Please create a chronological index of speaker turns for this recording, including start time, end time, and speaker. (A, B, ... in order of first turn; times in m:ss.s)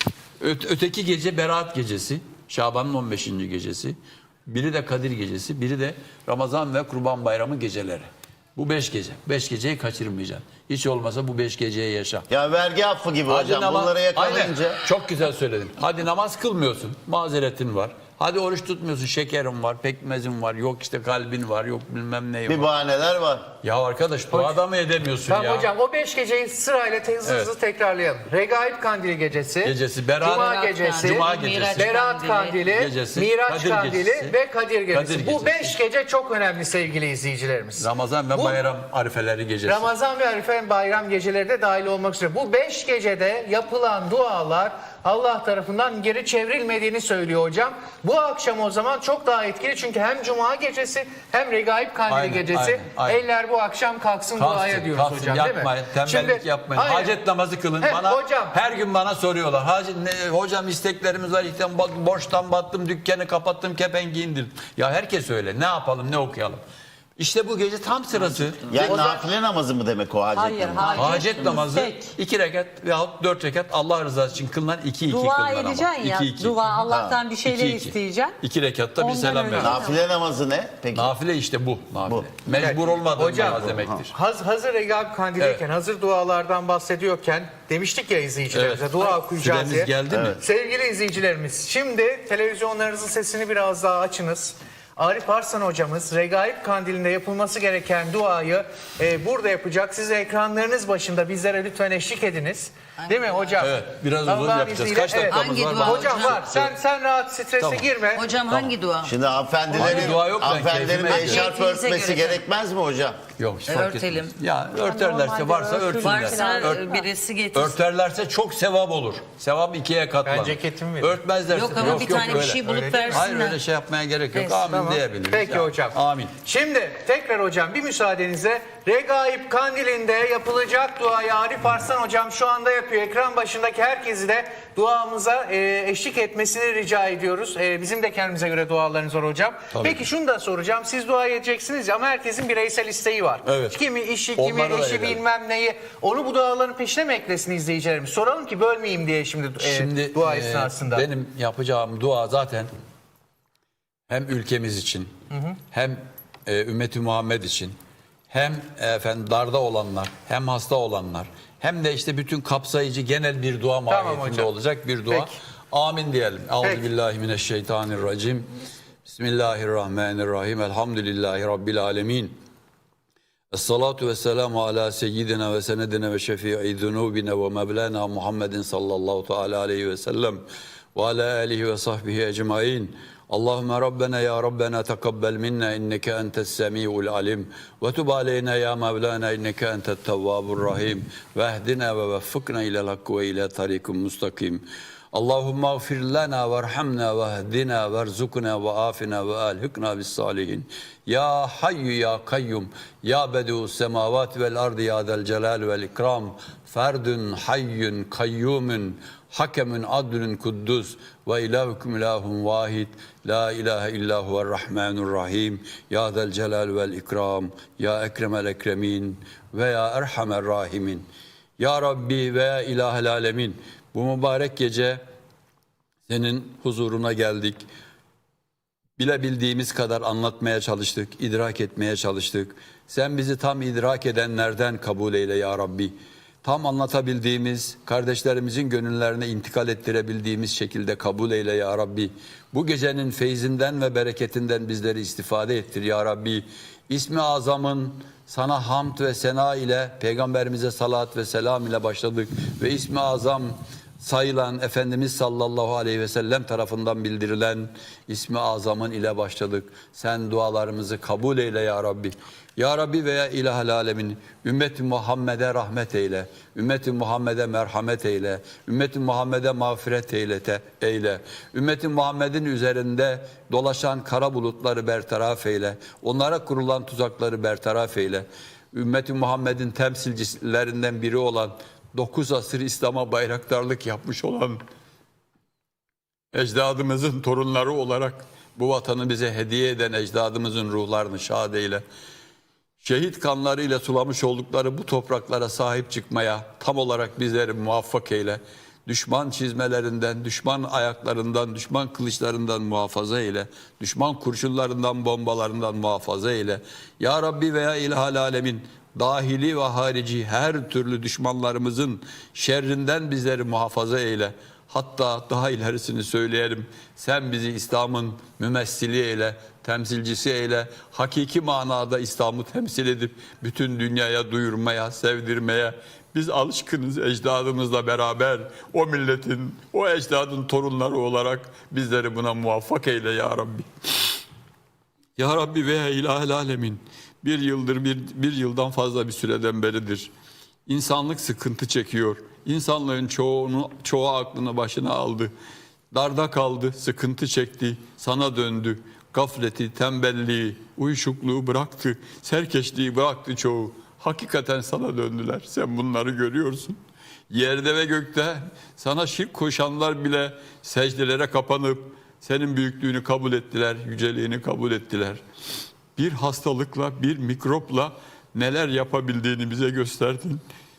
0:00.4-0:12.3 A
0:12.3-0:14.8 B
0:13.3-0:22.7 A
0:22.5-0:23.5 B
0:23.6-0:25.7 A
0:24.3-0:24.6 C
0:25.3-0:38.6 C
0:27.2-0:27.5 A
0:29.6-0:31.9 A
0:30.2-0:32.6 D
0:32.7-0:34.4 A
0:34.9-0:35.8 A
0:37.8-0:39.9 A
0:39.6-0:57.1 C
0:52.1-0:53.2 A
0:54.4-1:06.6 A
0:57.8-0:58.6 C
1:07.2-1:09.1 A
1:08.7-1:11.2 B
1:08.7-1:09.1 D
1:10.3-1:12.1 E
1:10.9-1:16.6 A
1:15.1-1:18.4 E
1:16.8-1:17.2 B
1:17.4-1:19.8 A
1:19.0-1:20.0 E
1:19.5-1:21.1 B
1:20.9-1:24.1 A
1:22.5-1:48.2 C
1:25.4-1:25.6 A
1:28.5-1:30.4 A
1:30.1-1:30.4 B
1:43.6-1:46.7 A
1:45.2-1:46.4 D
1:47.6-1:47.9 A
1:48.1-1:49.2 D
1:48.5-1:48.7 A
1:49.0-1:53.2 B
1:49.7-1:50.2 D
1:49.7-1:51.4 A
1:50.9-1:52.4 D
1:53.4-1:56.9 A
1:53.6-1:54.3 D
1:54.8-1:57.1 E
1:56.0-1:57.8 D
1:57.5-2:06.4 A
2:00.2-2:01.2 C
2:01.5-2:03.6 D
2:01.8-2:03.3 C
2:04.5-2:31.1 C
2:19.7-2:20.0 A
2:23.4-2:23.8 A
2:24.4-2:25.2 A
2:29.6-2:32.7 A
2:34.1-2:35.1 A
2:35.3-2:35.6 C
2:35.7-2:37.8 A
2:38.3-2:48.5 A
2:43.9-2:44.5 C
2:49.0-2:52.4 A
2:53.5-3:00.4 A
3:00.9-3:41.1 A
3:41.6-3:45.0 A
3:46.1-3:47.6 A
3:49.0-4:44.6 A
4:46.3-4:51.8 A
4:52.8-5:33.7 A
5:35.2-5:40.1 A
5:40.7-5:45.3 A
5:45.9-5:56.8 A
5:57.3-6:05.2 A
6:06.0-6:10.4 A